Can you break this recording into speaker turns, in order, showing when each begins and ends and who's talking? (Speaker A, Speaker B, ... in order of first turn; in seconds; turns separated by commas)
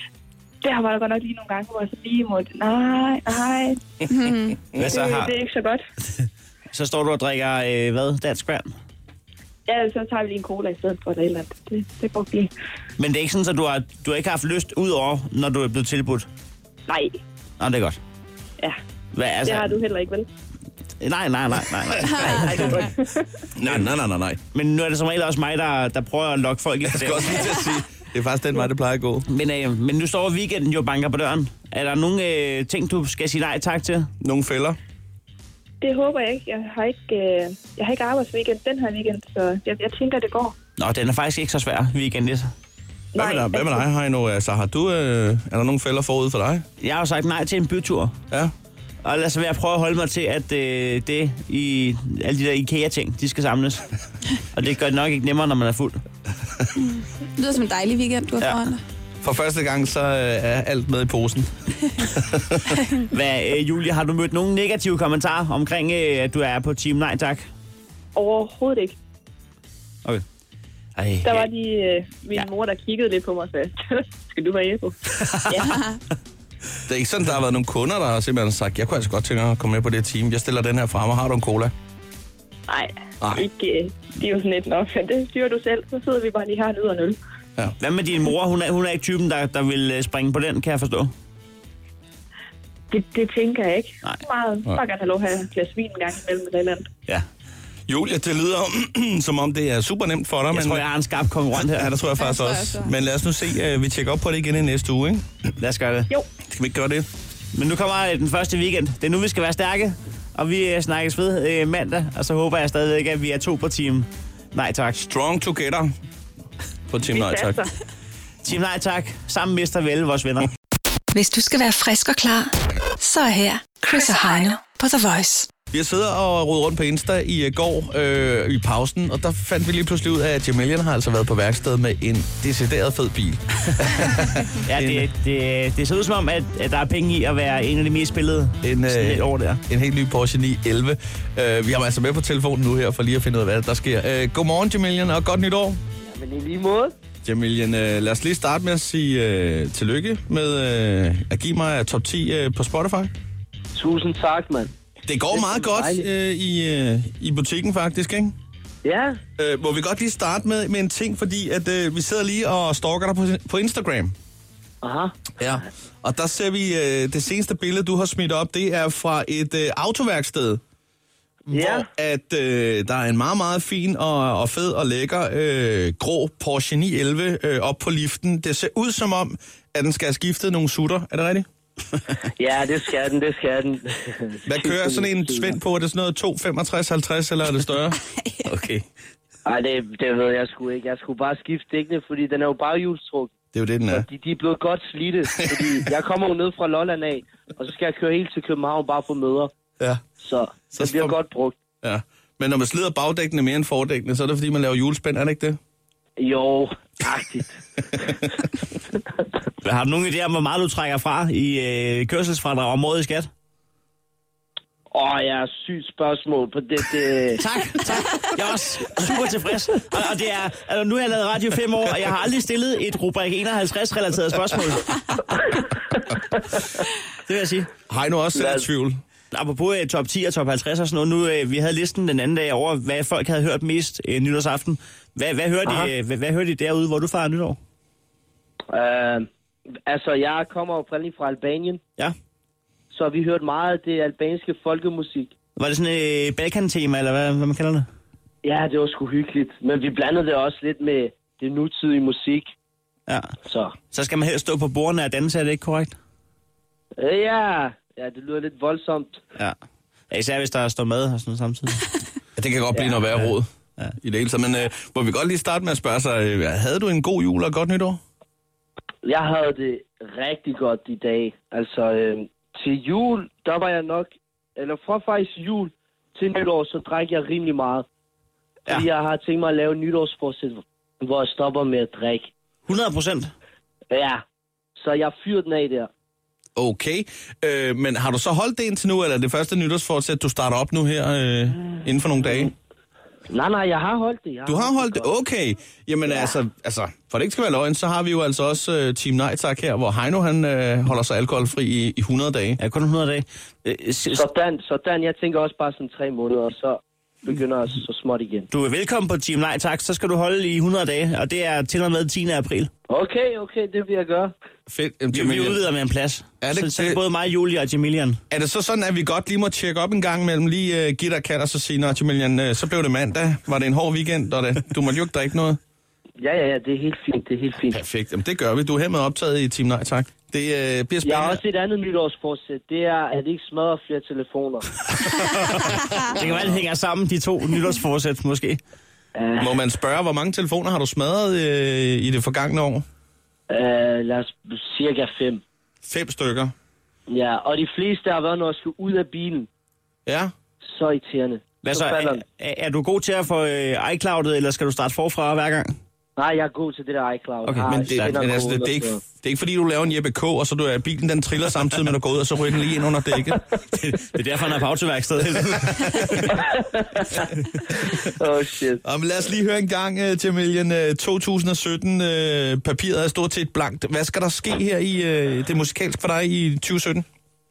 Speaker A: 0.6-3.8, Speaker B: 4.1-4.6, Speaker C: 4.7-5.3, Speaker A: 4.8-5.8, Speaker C: 6.7-8.7, Speaker A: 9.7-12.5, Speaker C: 13.0-16.3, Speaker A: 16.9-17.2, Speaker C: 17.6-18.0, Speaker C: 19.1-19.8, Speaker A: 19.5-20.3, Speaker C: 21.0-22.9, Speaker A: 22.0-23.3, Speaker D: 23.6-24.4, Speaker C: 24.5-27.5, Speaker D: 26.9-29.3, Speaker C: 29.3-34.1, Speaker D: 34.2-34.8, Speaker A: 35.8-40.6, Speaker C: 40.8-42.5, Speaker A: 43.1-43.8, Speaker D: 43.1-46.7, Speaker C: 46.8-48.1, Speaker C: 49.0-53.9, Speaker C: 54.5-56.0, Speaker B: 57.4-58.8, Speaker D: 59.2-62.8, Speaker C: 63.1-67.5, Speaker A: 68.2-69.0, Speaker C: 71.0-71.5, Speaker A: 71.2-75.0, Speaker C: 75.2-75.8, Speaker A: 75.5-75.9, Speaker D: 76.9-81.7, Speaker A: 82.7-87.2, Speaker C: 87.8-91.1, Speaker A: 92.9-96.9, Speaker D: 97.9-100.8, Speaker C: 100.5-101.9, Speaker D: 101.6-105.3, Speaker B: 102.2-102.9, Speaker C: 105.6-106.1, Speaker D: 106.5-107.1, Speaker C: 107.5-115.0, Speaker D: 115.0-115.9, Speaker D: 116.9-117.6, Speaker A: 117.1-117.7, Speaker C: 118.4-120.5, Speaker E: 121.1-125.5, Speaker D: 125.7-135.1, Speaker C: 134.6-139.6, Speaker D: 138.6-145.8, Speaker F: 146.0-146.9, Speaker D: 147.2-153.1, Speaker F: 153.7-154.7, Speaker D: 155.1-158.3, Speaker F: 155.3-156.1, Speaker F: 158.8-159.2, Speaker D: 159.4-164.2, Speaker F: 164.8-165.3, Speaker D: 165.4-170.6, Speaker D: 171.5-181.5, Speaker F: 171.5-171.9, Speaker F: 182.4-185.6, Speaker D: 184.5-188.8, Speaker F: 189.5-193.3, Speaker D: 193.5-194.1, Speaker F: 193.9-199.5, Speaker D: 195.4-195.8, Speaker F: 200.2-201.6, Speaker D: 200.7-201.2, Speaker D: 201.8-205.6, Speaker F: 206.2-208.2, Speaker C: 209.6-213.3, Speaker F: 214.9-217.4, Speaker C: 217.4-225.0, Speaker C: 227.3-227.7, Speaker D: 227.9-229.0, Speaker F: 228.3-228.6, Speaker C: 229.3-237.6, Speaker F: 238.7-239.3, Speaker F: 239.9-241.8, Speaker F: 242.9-245.3, Speaker C: 245.6-247.9, Speaker F: 248.4-252.5, Speaker F: 253.5-253.8, Speaker C: 253.9-256.0, Speaker F: 257.0-259.2, Speaker C: 260.1-262.0, Speaker D: 262.4-263.5, Speaker D: 264.0-268.0, Speaker F: 269.0-277.9, Speaker F: 278.7-282.3, Speaker C: 282.7-283.3, Speaker F: 283.9-284.2, Speaker F: 284.8-285.9, Speaker D: 286.6-292.5, Speaker F: 293.3-295.1, Speaker D: 294.5-302.6, Speaker C: 302.6-304.2, Speaker F: 304.1-308.5, Speaker C: 308.5-312.7, Speaker F: 312.9-314.3, Speaker D: 314.7-315.6, Speaker C: 315.1-318.2, Speaker D: 316.4-317.0, Speaker D: 318.3-325.6, Speaker F: 326.2-327.8, Speaker D: 327.7-331.4, Speaker F: 331.0-334.8, Speaker C: 336.1-338.6, Speaker D: 336.1-336.4, Speaker F: 339.2-339.6, Speaker D: 339.4-342.9, Speaker F: 343.5-345.4, Speaker D: 345.8-346.5, Speaker F: 347.1-349.5, Speaker D: 350.1-350.3, Speaker F: 350.6-352.2, Speaker C: 351.6-355.7, Speaker F: 356.2-359.0, Speaker C: 357.4-358.2, Speaker D: 357.7-363.4, Speaker C: 363.7-366.4, Speaker D: 365.7-366.2, Speaker F: 366.3-367.3, Speaker F: 367.9-368.8, Speaker D: 368.8-377.1